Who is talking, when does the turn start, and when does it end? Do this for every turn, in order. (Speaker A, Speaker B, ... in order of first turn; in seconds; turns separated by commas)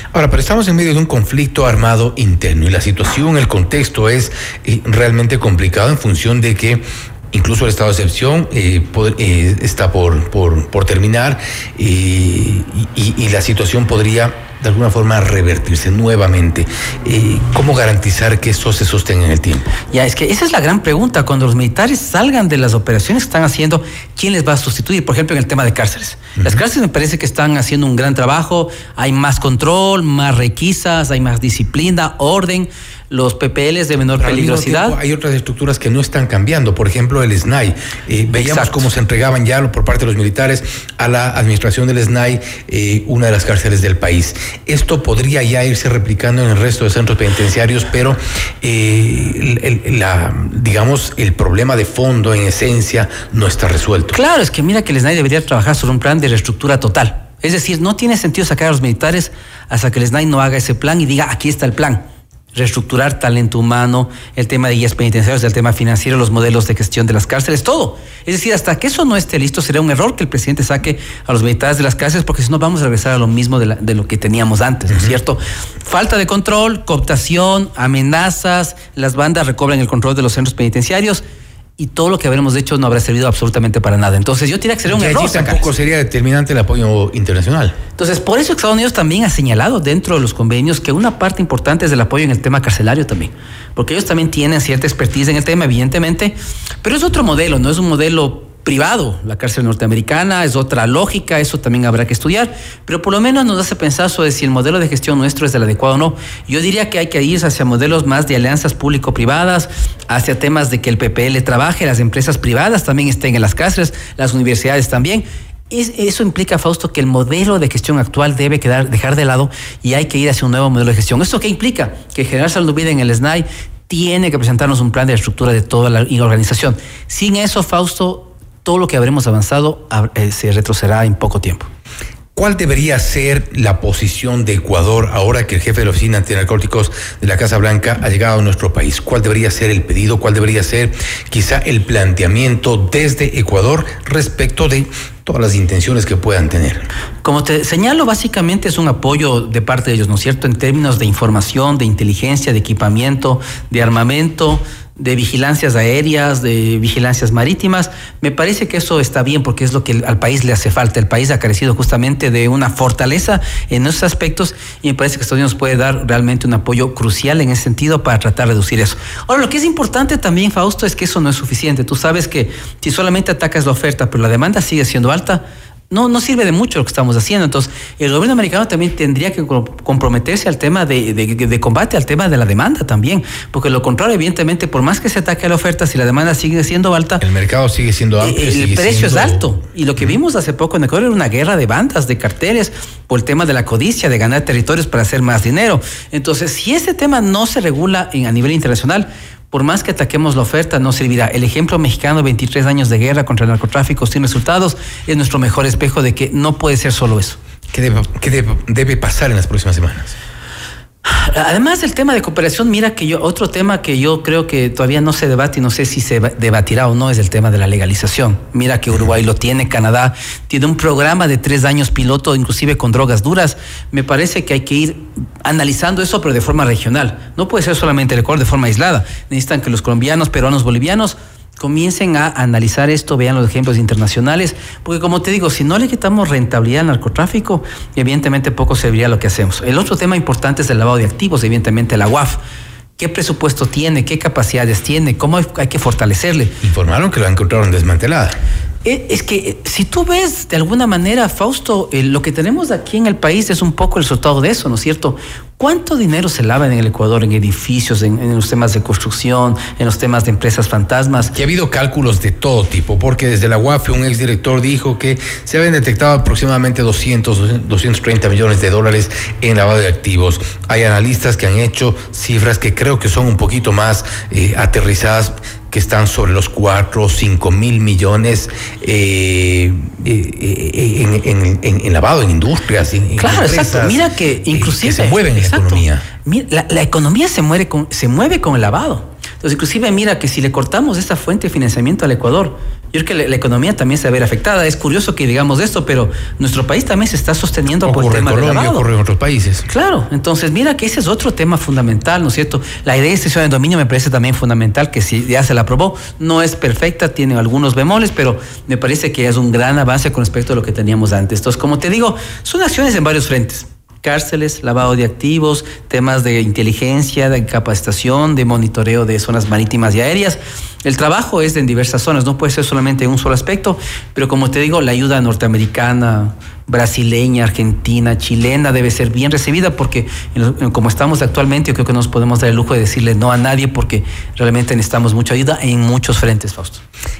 Speaker A: 0.1-19.7, Speaker B: 19.9-35.0, Speaker A: 34.2-54.2, Speaker B: 38.3-38.8, Speaker B: 54.1-81.2, Speaker A: 74.9-75.2, Speaker B: 81.8-85.7, Speaker A: 84.9-87.8, Speaker B: 88.0-131.7, Speaker A: 132.3-146.8, Speaker B: 147.2-187.2, Speaker A: 187.2-190.2, Speaker B: 188.2-207.4, Speaker A: 207.7-210.1, Speaker B: 211.1-242.4, Speaker B: 243.0-246.5, Speaker A: 246.6-248.4, Speaker B: 248.8-261.3, Speaker A: 261.3-286.1, Speaker B: 283.2-298.8, Speaker A: 297.8-299.6, Speaker B: 299.7-336.8